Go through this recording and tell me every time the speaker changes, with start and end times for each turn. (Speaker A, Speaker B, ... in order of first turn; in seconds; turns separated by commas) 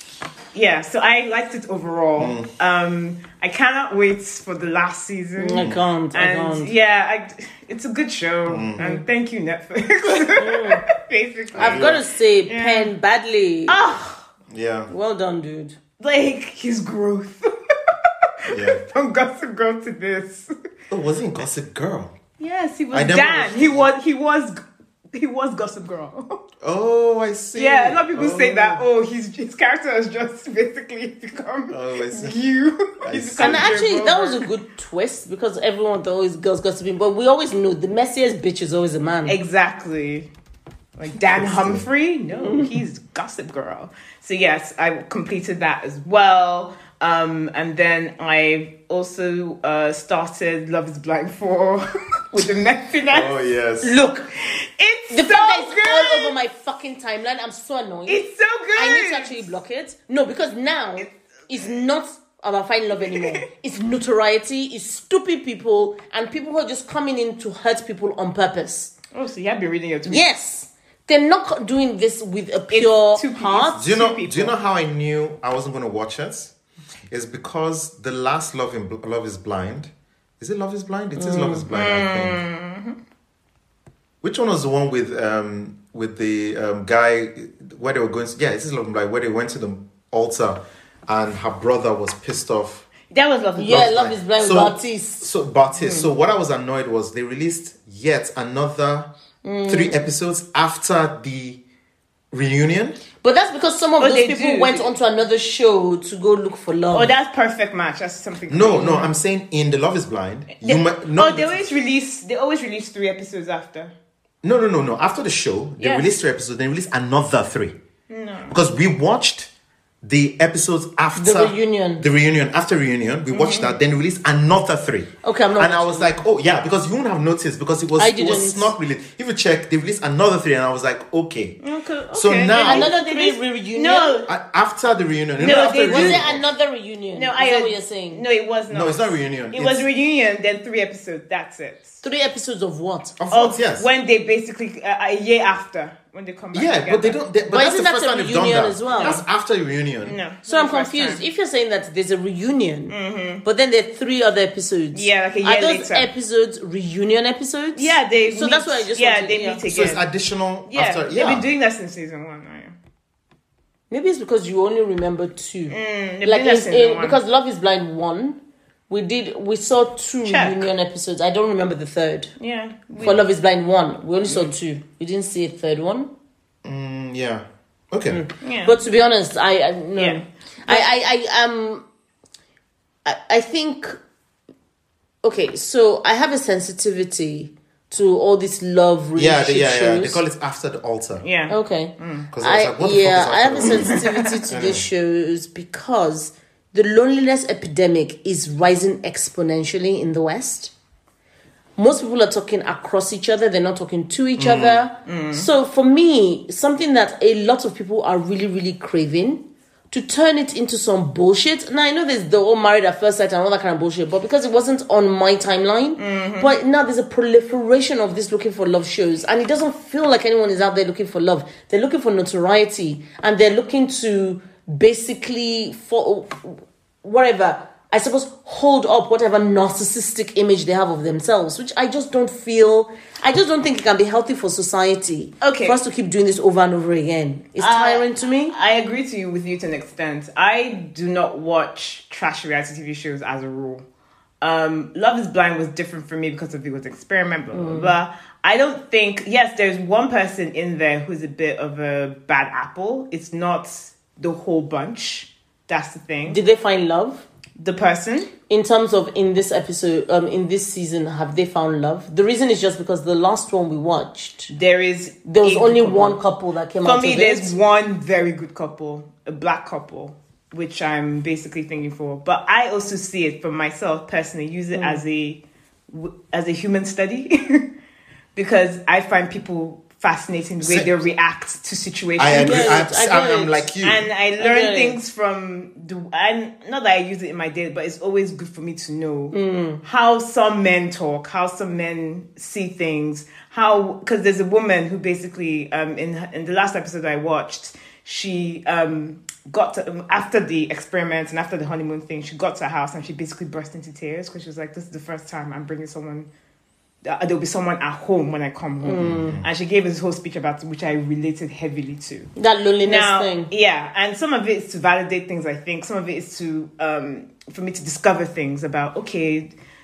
Speaker A: 0.5-12.9, Speaker B: 2.2-2.5, Speaker C: 5.4-6.7, Speaker B: 8.5-8.8, Speaker C: 8.8-9.1, Speaker C: 10.4-10.8, Speaker B: 11.6-12.0, Speaker C: 11.6-13.8, Speaker A: 13.7-14.3, Speaker B: 14.5-14.9, Speaker C: 14.9-15.8, Speaker A: 16.0-17.5, Speaker A: 18.4-20.5, Speaker B: 18.5-18.8, Speaker B: 20.9-22.1, Speaker A: 22.4-24.6, Speaker B: 22.9-23.9, Speaker A: 25.1-26.4, Speaker B: 26.6-28.9, Speaker A: 27.6-34.5, Speaker B: 31.7-32.4, Speaker B: 33.0-33.8, Speaker C: 33.4-39.4, Speaker A: 39.3-40.3, Speaker A: 41.0-53.4, Speaker B: 41.2-41.9, Speaker C: 42.3-42.7, Speaker B: 53.1-54.0, Speaker C: 53.8-54.3, Speaker A: 54.6-56.4, Speaker C: 55.1-58.2, Speaker A: 58.1-59.5, Speaker C: 58.8-68.9, Speaker A: 63.1-63.4, Speaker A: 69.1-70.2, Speaker C: 70.0-73.8, Speaker A: 72.7-74.5, Speaker B: 73.8-76.5, Speaker B: 77.1-82.4, Speaker C: 81.2-81.7, Speaker A: 81.7-83.0, Speaker B: 84.2-92.9, Speaker A: 93.1-93.9, Speaker C: 93.6-95.3, Speaker B: 93.7-99.1, Speaker A: 95.8-96.1, Speaker C: 99.4-100.0, Speaker B: 99.7-101.6, Speaker B: 102.3-103.0, Speaker C: 103.2-107.1, Speaker A: 104.0-104.9, Speaker A: 106.9-109.1, Speaker B: 108.5-111.7, Speaker A: 110.6-113.9, Speaker B: 114.4-117.8, Speaker A: 115.8-116.1, Speaker A: 118.1-118.6, Speaker B: 118.5-119.5, Speaker B: 120.0-131.6, Speaker C: 121.2-122.0, Speaker A: 123.3-123.8, Speaker C: 125.2-126.2, Speaker C: 128.0-128.7, Speaker A: 131.6-134.3, Speaker B: 132.1-132.9, Speaker C: 132.6-134.3, Speaker B: 134.3-136.5, Speaker A: 135.4-136.3, Speaker C: 135.8-138.2, Speaker A: 137.1-142.0, Speaker B: 138.7-139.9, Speaker C: 142.0-143.2, Speaker B: 143.2-143.9, Speaker A: 143.3-147.2, Speaker B: 146.5-150.2, Speaker C: 147.5-149.2, Speaker A: 148.9-149.2, Speaker A: 150.0-151.2, Speaker C: 150.5-159.6, Speaker A: 152.9-153.4, Speaker A: 154.9-156.1, Speaker A: 157.8-160.1, Speaker B: 159.7-161.5, Speaker A: 160.7-162.8, Speaker C: 163.9-172.3, Speaker A: 165.7-167.2, Speaker A: 170.2-170.7, Speaker A: 172.4-173.2, Speaker C: 173.0-176.1, Speaker B: 176.6-178.2, Speaker C: 178.1-181.8, Speaker A: 178.4-178.8, Speaker A: 179.9-180.9, Speaker C: 183.1-184.0, Speaker C: 185.2-190.2, Speaker B: 189.2-191.2, Speaker A: 191.2-192.3, Speaker C: 191.5-200.7, Speaker B: 192.3-194.8, Speaker A: 193.6-194.3, Speaker C: 201.8-238.5, Speaker B: 204.4-204.8, Speaker A: 205.1-205.5, Speaker A: 216.0-216.5, Speaker A: 235.4-235.8, Speaker A: 237.6-243.8, Speaker A: 244.4-256.4, Speaker C: 247.5-247.9, Speaker C: 256.3-257.2, Speaker A: 257.6-258.3, Speaker C: 258.5-264.5, Speaker A: 264.5-266.2, Speaker C: 265.2-267.6, Speaker A: 266.8-277.7, Speaker C: 274.7-275.0, Speaker A: 278.4-282.9, Speaker B: 280.6-280.9, Speaker B: 282.2-284.1, Speaker C: 282.3-283.7, Speaker A: 283.8-306.3, Speaker C: 284.4-285.0, Speaker C: 289.3-289.8, Speaker A: 307.0-312.3, Speaker C: 308.8-309.4, Speaker B: 309.0-309.5, Speaker C: 312.4-313.5, Speaker A: 312.8-319.5